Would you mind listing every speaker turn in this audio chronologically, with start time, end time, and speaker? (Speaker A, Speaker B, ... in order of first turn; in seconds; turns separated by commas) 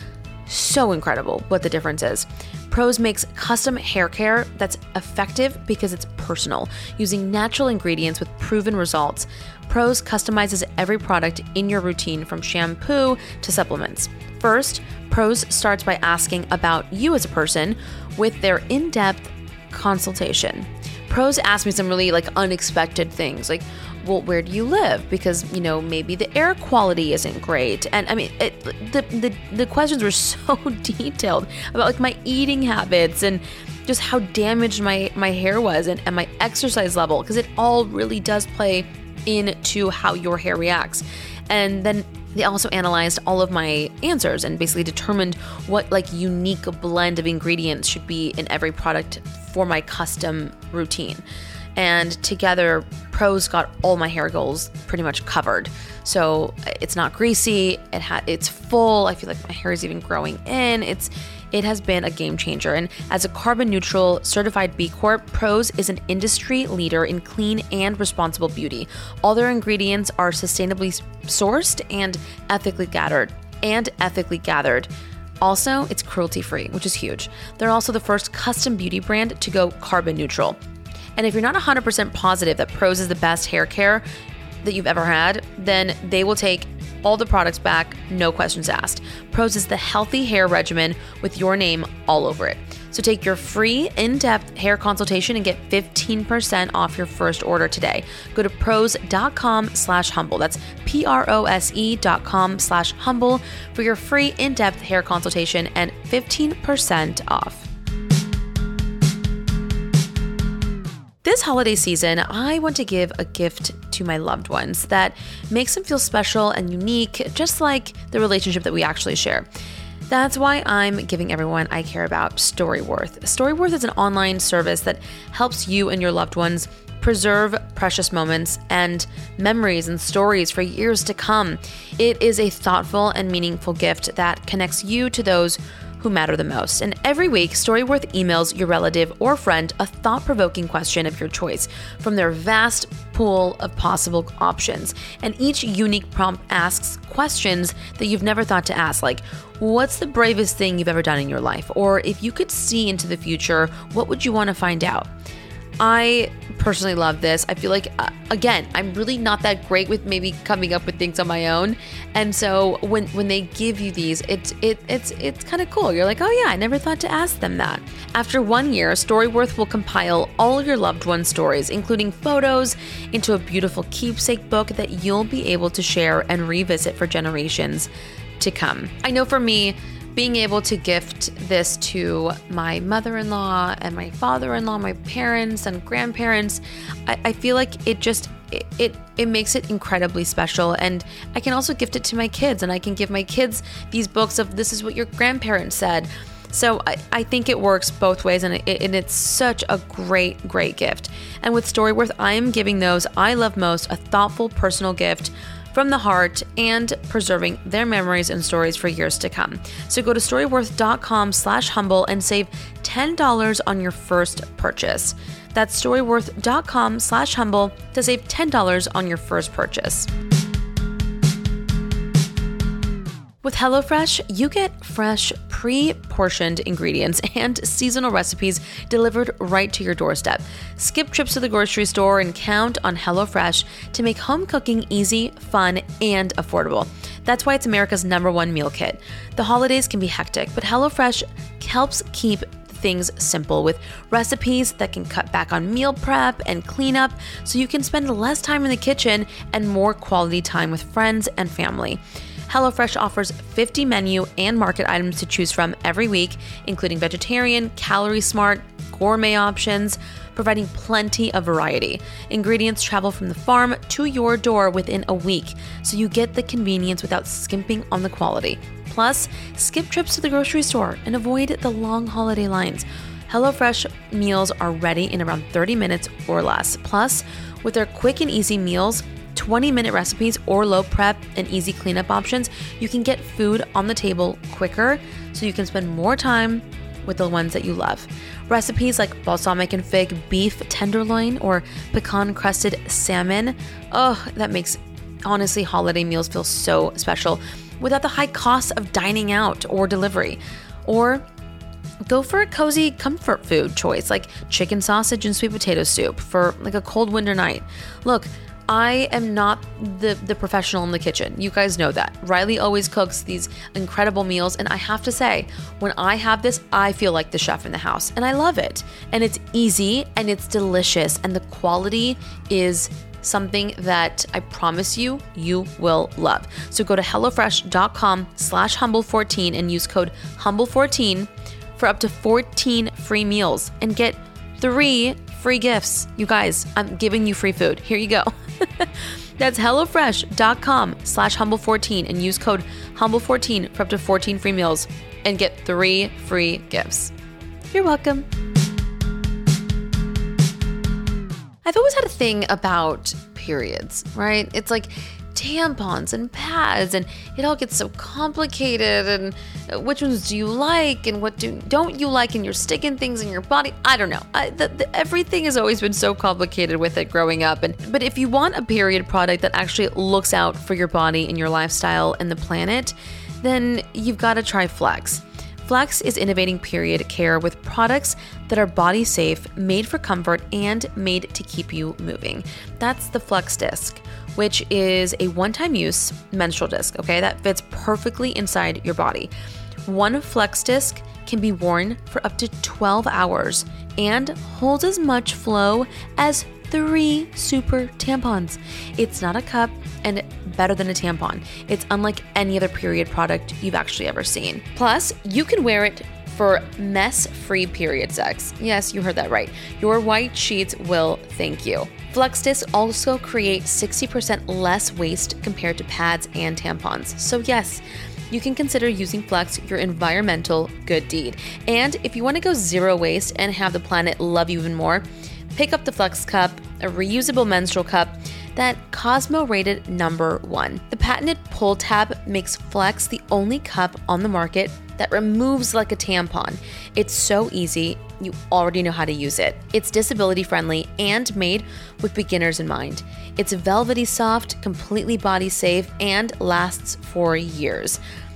Speaker A: 0.5-51.2, Speaker A: 51.8-74.9, Speaker A: 75.4-80.6, Speaker A: 81.2-84.0, Speaker A: 84.6-107.7, Speaker A: 111.2-119.5, Speaker A: 120.1-155.1, Speaker A: 155.8-220.1, Speaker A: 223.4-301.2, Speaker A: 302.0-347.1, Speaker A: 347.7-348.2, Speaker A: 351.6-389.3, Speaker A: 389.9-448.0